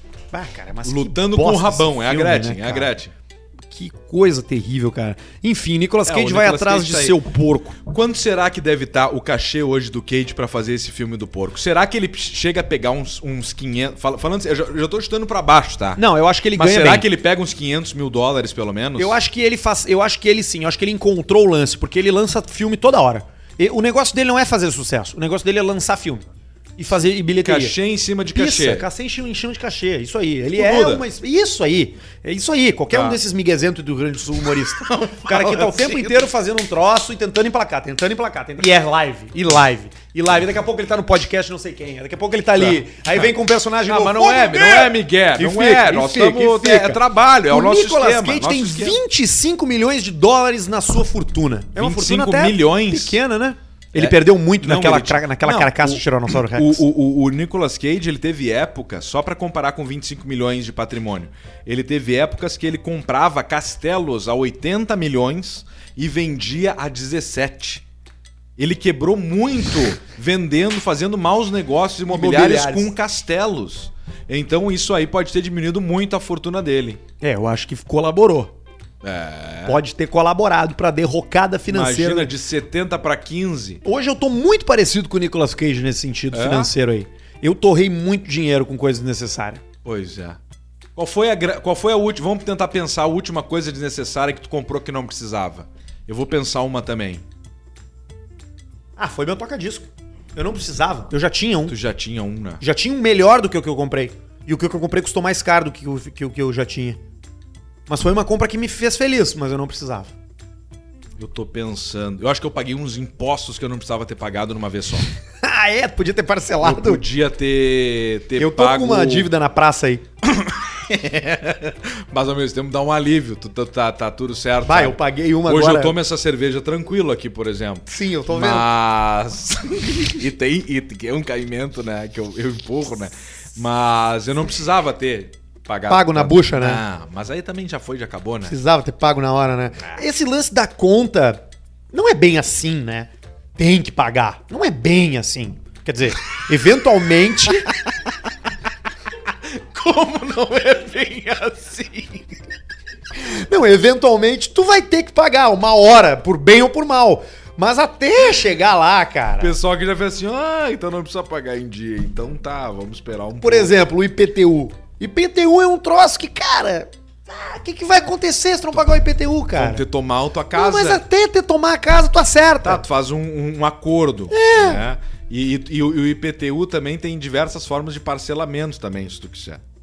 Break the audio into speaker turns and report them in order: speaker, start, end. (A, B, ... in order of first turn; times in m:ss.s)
0:00.3-0:02.9 A
0:00.8-0:03.1 B
0:03.7-0:07.8 A
0:06.0-0:07.2 B
0:07.8-0:16.0 B
0:16.0-0:17.1 A
0:16.5-0:19.2 B
0:19.0-0:26.2 A
0:26.8-0:27.7 A
0:27.4-0:28.9 B
0:28.3-0:56.8 A
0:30.5-0:31.0 B
0:32.9-0:33.2 B
0:34.4-0:36.3 B
0:42.6-0:43.3 B
0:43.8-0:49.0 B
0:51.8-0:53.2 B
0:53.9-1:07.8 B
1:08.6-1:17.0 B
1:12.1-1:12.9 A
1:17.2-1:18.5 A
1:19.0-1:19.8 B
1:19.6-1:22.3 A
1:21.7-1:23.8 B
1:23.8-1:29.6 A
1:26.3-1:26.7 B
1:29.8-1:30.4 B
1:31.0-1:37.2 B
1:39.0-1:41.8 A
1:41.7-1:42.6 B
1:42.6-1:47.0 A
1:47.9-1:50.1 A
1:51.2-1:55.1 B
1:55.4-1:57.0 A
1:56.6-1:59.3 B
1:58.4-2:00.0 A
2:00.2-2:18.6 B
2:04.6-2:05.9 A
2:07.9-2:08.7 A
2:15.9-2:16.8 A
2:18.4-2:27.7 A
2:27.8-2:28.1 B
2:29.3-2:32.3 B
2:33.2-2:39.5 A
2:39.4-2:43.7 B
2:43.4-2:49.8 A
2:49.5-2:51.0 B
2:50.5-2:52.8 A
2:52.6-2:59.6 B
2:54.3-2:54.8 A